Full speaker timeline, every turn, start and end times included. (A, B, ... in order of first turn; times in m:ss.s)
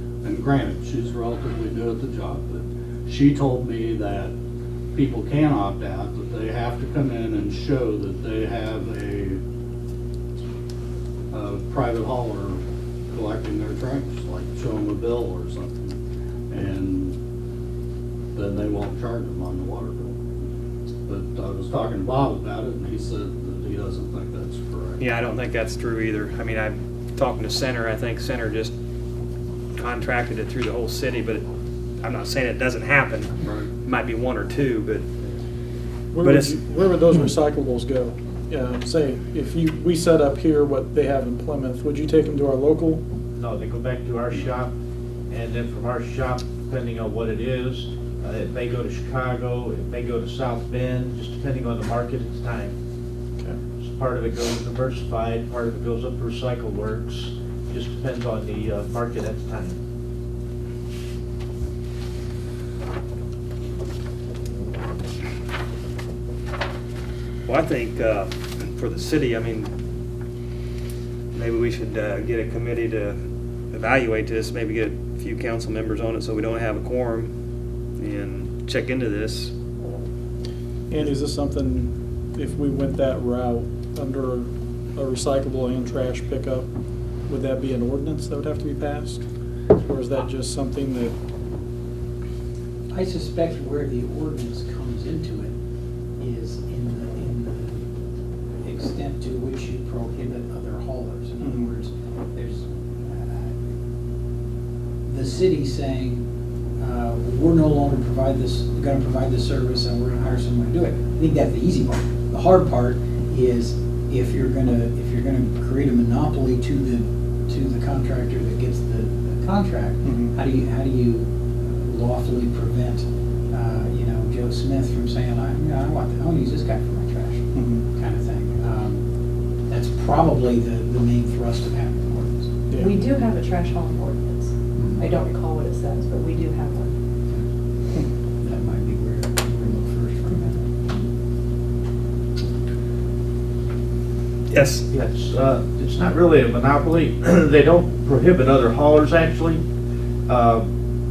0:00.2-0:04.3 A
0:04.9-0:09.4 A
0:11.3-0:15.9 A
0:16.5-0:17.2 A
0:18.4-0:20.2 A
0:21.1-0:25.1 A
0:25.0-0:28.7 B
0:29.8-0:31.4 B
0:32.0-0:35.1 B
0:33.4-0:33.7 A
0:36.1-0:43.0 C
0:36.2-0:36.6 B
0:43.4-0:44.7 D
0:45.3-0:52.7 D
0:53.8-0:59.8 D
1:07.4-1:09.7 B
1:11.3-1:13.2 B
1:13.7-1:17.3 B
1:18.0-1:19.5 B
1:20.9-1:26.7 C
1:27.3-1:31.2 C
1:32.9-1:35.5 E
1:36.2-1:37.9 E
1:38.6-1:43.6 E
1:41.4-1:41.7 C
1:45.1-1:46.2 E
1:46.8-2:09.0 E
2:00.0-2:00.3 C
2:07.6-2:07.8 C
2:09.7-2:12.5 E
2:12.7-2:13.0 C
2:12.8-2:17.0 F
2:14.8-2:15.0 E
2:18.4-2:20.7 E
2:24.5-2:24.8 B
2:24.9-2:29.6 D
2:30.3-2:30.7 D